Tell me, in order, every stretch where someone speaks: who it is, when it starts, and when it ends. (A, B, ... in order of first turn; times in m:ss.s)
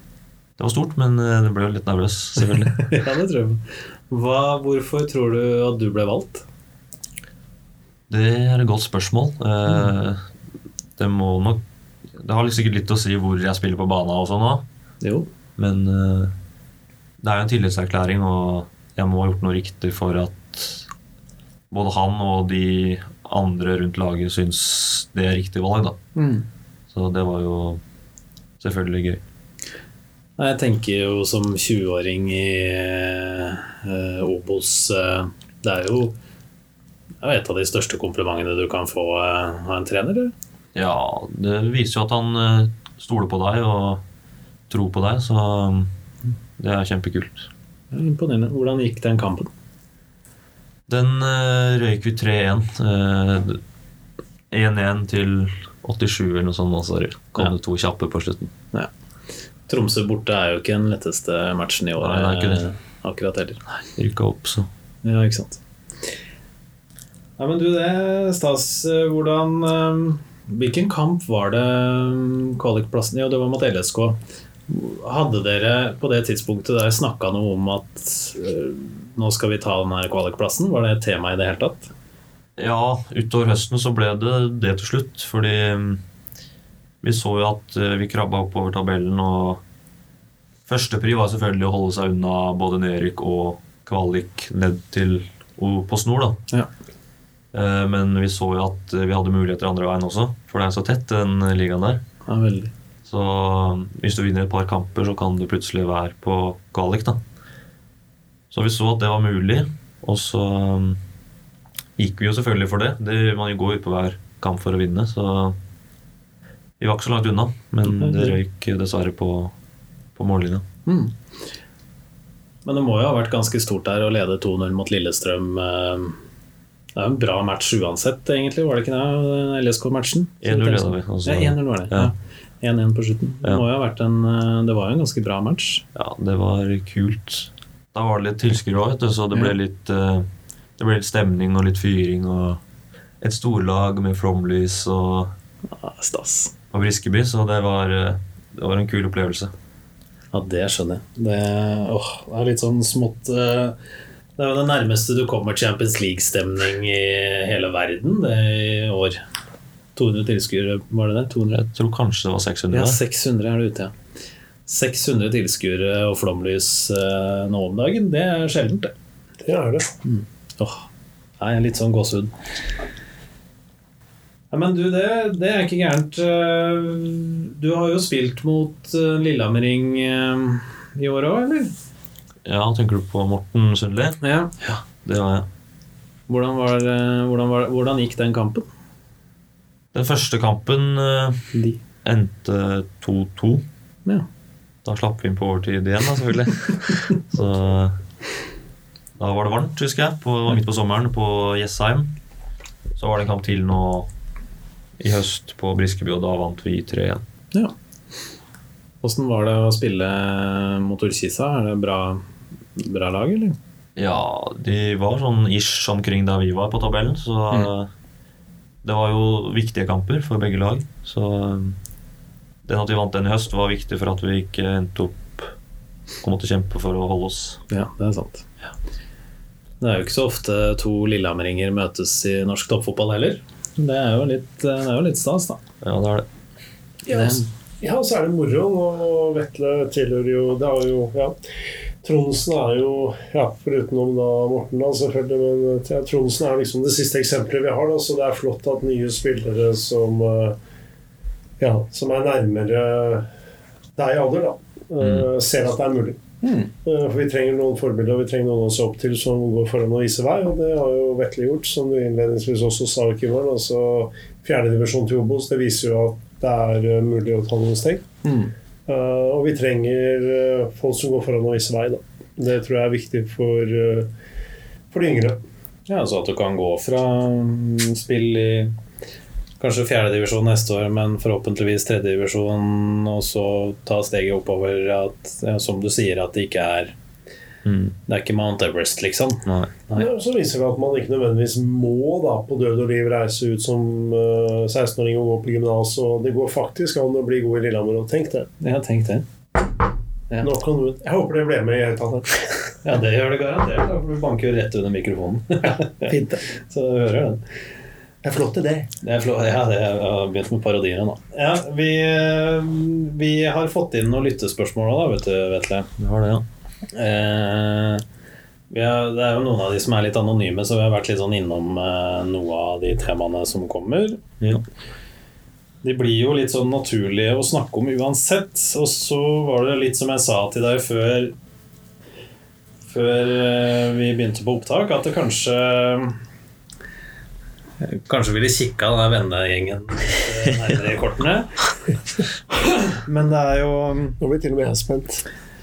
0:00.6-0:02.9 A
0:02.8-0:06.4 B
0:08.1-0:10.2 A
0:09.6-0:09.9 B
0:11.0-0:11.6 A
0:12.2-0:14.6 A
0:15.0-0:15.3 B
0:15.6-0:16.3 A
0:17.2-0:20.9 A
0:21.7-0:26.0 A
0:26.2-0:26.5 B
0:26.9-0:27.8 A
0:28.6-0:29.2 A
0:30.4-0:36.2 B
0:37.2-0:40.3 B
0:40.7-0:44.0 A
0:44.7-0:45.9 A
0:46.6-0:47.5 A
0:47.9-0:49.5 B
0:50.9-0:53.6 A
0:54.5-0:58.5 A
0:59.7-1:03.6 B
1:02.0-1:02.6 A
1:03.9-1:04.7 A
1:05.0-1:05.6 B
1:07.4-1:21.9 B
1:22.6-1:26.0 A
1:27.0-1:29.6 A
1:30.7-1:36.4 A
1:37.5-1:42.0 A
1:42.3-1:42.7 B
1:43.1-1:47.2 A
1:48.5-1:51.0 A
1:52.0-1:55.6 A
1:56.8-1:59.5 A
1:57.9-1:58.4 B
2:00.2-2:00.6 A
2:00.9-2:01.1 B
2:02.6-2:06.2 B
2:07.0-2:15.8 B
2:10.4-2:12.1 A
2:15.9-2:22.6 A
2:23.2-2:25.3 A
2:25.7-2:26.5 B
2:26.7-2:29.5 A
2:30.3-2:33.8 B
2:34.4-2:39.2 B
2:40.0-2:41.6 B
2:41.5-2:43.0 A
2:42.7-2:43.9 B
2:44.7-2:48.9 B
2:49.4-2:49.9 C
2:50.0-2:50.9 B
2:51.4-2:52.3 B
2:54.5-3:01.7 B
3:02.4-3:04.2 A
3:04.2-3:04.8 B
3:05.0-3:05.5 A
3:06.3-3:08.7 B
3:09.9-3:11.5 A
3:11.5-3:11.8 B
3:12.0-3:13.6 A
3:14.8-3:18.0 A
3:19.2-3:22.1 A
3:23.0-3:24.1 A
3:25.0-3:27.2 A
3:29.0-3:33.6 B
3:34.0-3:37.9 A
3:38.8-3:41.8 A
3:42.6-3:45.5 A
3:46.2-3:47.6 A
3:47.7-3:48.5 B
3:49.8-3:55.6 B
3:55.8-3:56.3 A
3:57.1-4:01.4 C
3:57.1-3:57.5 B
4:02.0-4:10.6 C
4:11.6-4:13.3 C
4:14.0-4:16.2 C
4:15.0-4:15.3 A
4:16.4-4:16.7 B
4:16.8-4:28.1 C
4:28.2-4:28.5 B
4:28.9-4:34.1 C
4:34.9-4:35.4 C
4:35.9-4:38.8 B
4:39.6-4:46.9 B
4:47.6-4:48.0 A
4:48.1-4:50.1 B
4:49.4-4:49.7 A
4:50.0-4:58.5 C
4:58.6-4:59.3 B
5:00.4-5:02.8 C
5:02.8-5:07.4 B
5:06.1-5:06.4 C
5:08.2-5:08.9 C
5:09.0-5:15.9 B
5:16.0-5:16.4 A
5:16.9-5:18.0 B
5:18.7-5:24.2 B
5:25.8-5:31.4 B
5:32.9-5:36.2 B
5:37.8-5:41.9 B
5:42.6-5:44.2 B
5:44.2-5:45.3 C